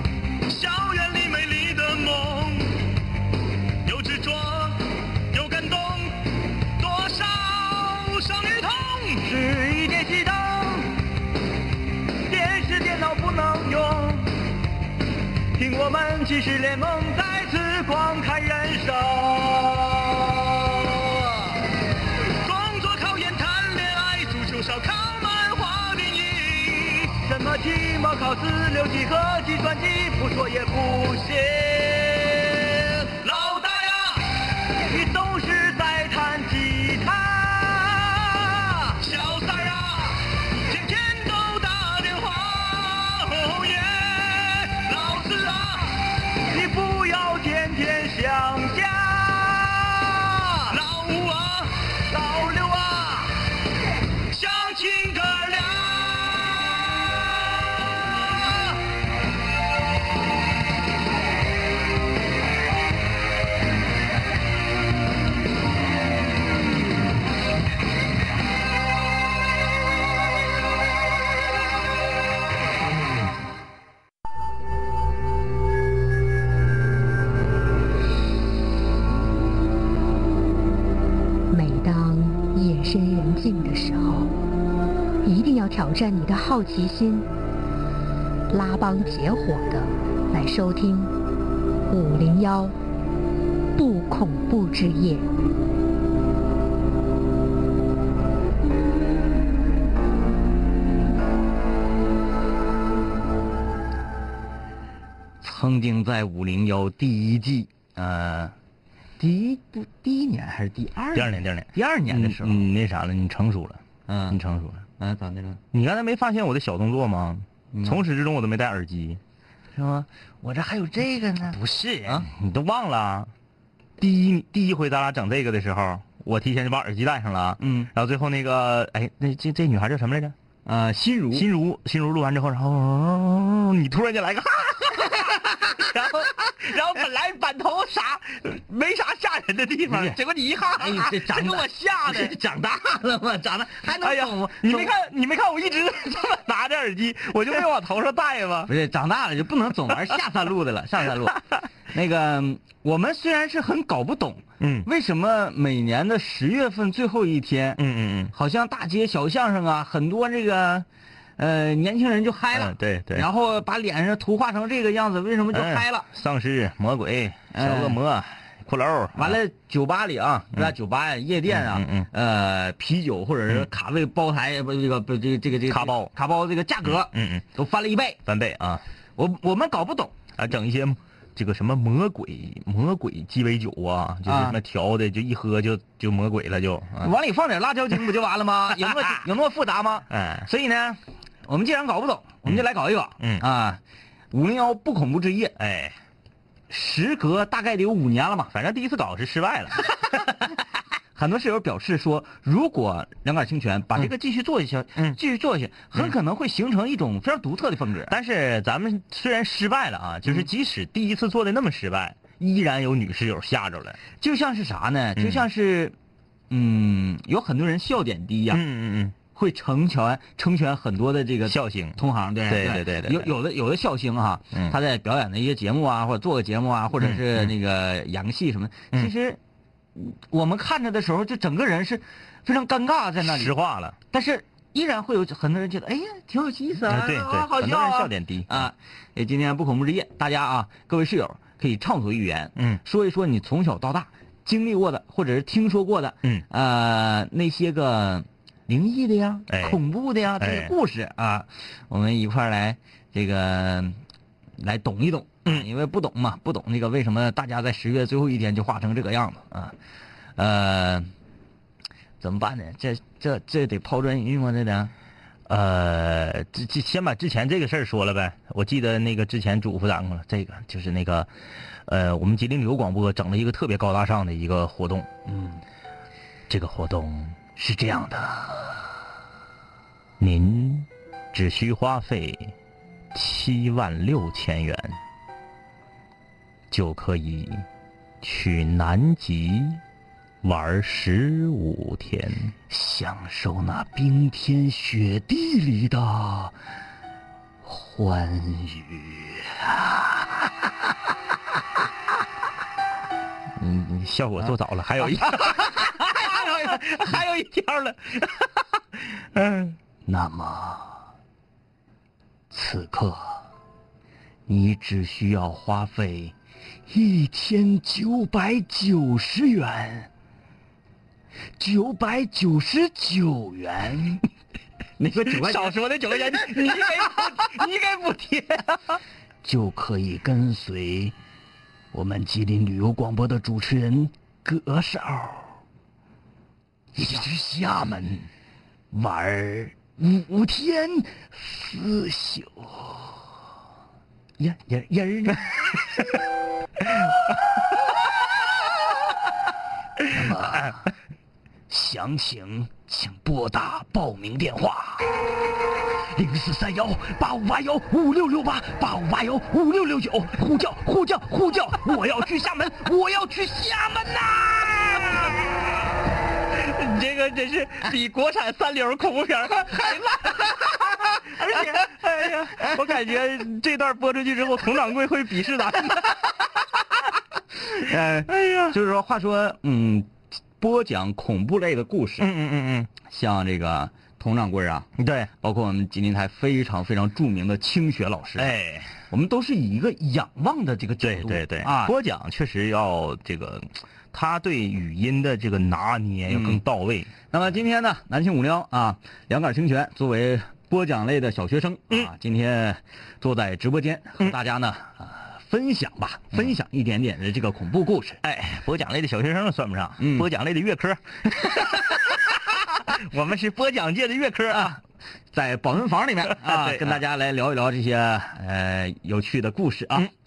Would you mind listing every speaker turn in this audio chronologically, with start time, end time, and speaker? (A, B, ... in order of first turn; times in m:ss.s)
0:00.4-0:02.8 A
0:03.8-0:11.0 A
0:12.2-0:14.4 A
0:15.6-0:21.6 A
0:22.2-0:53.4 A
0:54.3-0:56.6 A
0:58.4-0:58.7 A
1:21.5-1:24.3 B
1:25.2-1:27.3 B
1:28.5-1:31.1 B
1:31.9-1:32.8 B
1:33.8-1:35.3 B
1:45.4-1:48.6 C
1:49.2-1:52.7 C
1:51.1-1:54.9 A
1:54.1-1:54.4 C
1:55.0-1:55.6 C
1:55.7-1:59.2 A
1:57.7-1:58.0 C
1:59.7-2:02.3 C
2:01.4-2:03.3 A
2:04.0-2:10.4 A
2:07.6-2:07.9 C
2:10.6-2:11.5 C
2:11.3-2:22.4 A
2:19.9-2:20.2 C
2:20.7-2:24.9 C
2:23.9-2:28.7 A
2:28.7-2:37.8 C
2:34.6-2:34.9 A
2:37.8-2:38.4 A
2:38.3-2:40.9 C
2:41.4-2:46.0 C
2:42.5-2:43.3 A
2:45.5-2:49.4 A
2:47.5-2:48.0 C
2:49.2-2:58.2 C
2:51.4-2:52.1 A
2:55.7-2:56.1 A
2:56.8-2:57.5 A
2:58.2-2:58.8 A
2:59.2-3:00.1 C
3:00.4-3:07.1 A
3:04.2-3:04.6 C
3:07.0-3:15.6 C
3:08.8-3:09.2 A
3:10.1-3:10.5 A
3:13.2-3:13.4 A
3:15.6-3:16.0 A
3:16.7-3:18.5 C
3:18.5-3:20.1 A
3:21.2-3:28.1 C
3:28.1-3:34.0 A
3:34.2-3:35.9 C
3:35.2-3:35.5 A
3:36.5-3:38.6 C
3:38.5-3:39.2 A
3:39.4-3:49.4 C
3:41.5-3:43.3 A
3:47.0-3:47.5 A
3:50.0-3:53.5 C
3:53.2-3:54.0 A
3:54.1-4:14.0 C
3:56.9-3:58.7 A
4:02.6-4:02.8 A
4:09.5-4:09.8 A
4:10.4-4:10.7 A
4:14.6-4:19.8 C
4:20.4-4:21.1 C
4:22.2-4:24.9 C
4:25.5-4:31.3 A
4:31.9-4:35.1 A
4:35.2-4:35.6 C
4:36.5-4:37.5 A
4:37.6-4:38.9 C
4:40.2-4:42.5 A
4:43.1-4:45.0 A
4:46.7-4:47.6 A
4:48.2-4:49.8 A
4:50.4-4:52.5 A
4:52.7-4:56.6 C
4:57.6-5:00.4 C
5:03.6-5:08.3 A
5:05.1-5:07.2 C
5:09.3-5:09.8 A
5:10.1-5:11.0 C
5:12.5-5:13.4 C
5:14.5-5:16.3 C
5:16.9-5:20.1 C
5:21.6-5:24.2 C
5:25.0-5:28.5 C
5:25.2-5:28.6 A
5:29.4-5:31.2 C
5:31.9-5:35.5 C
5:36.9-5:38.3 C
5:38.9-5:43.2 C
5:44.4-5:45.8 C
5:50.1-5:50.9 C
5:51.7-5:55.1 C
5:56.1-6:04.9 C
6:04.6-6:05.7 A
6:06.5-6:16.3 A
6:11.2-6:13.1 C
6:17.7-6:22.3 C
6:18.3-6:18.8 A
6:22.2-6:22.9 A
6:23.1-6:24.9 C
6:25.0-6:25.3 A
6:25.4-6:28.5 C
6:28.4-6:28.9 A
6:29.1-6:31.9 C
6:31.0-6:37.1 A
6:36.3-6:36.6 C
6:37.3-6:48.2 C
6:48.2-6:54.8 A
6:50.0-6:50.3 C
6:54.5-6:54.8 C
6:55.3-7:00.1 C
6:56.3-6:57.0 A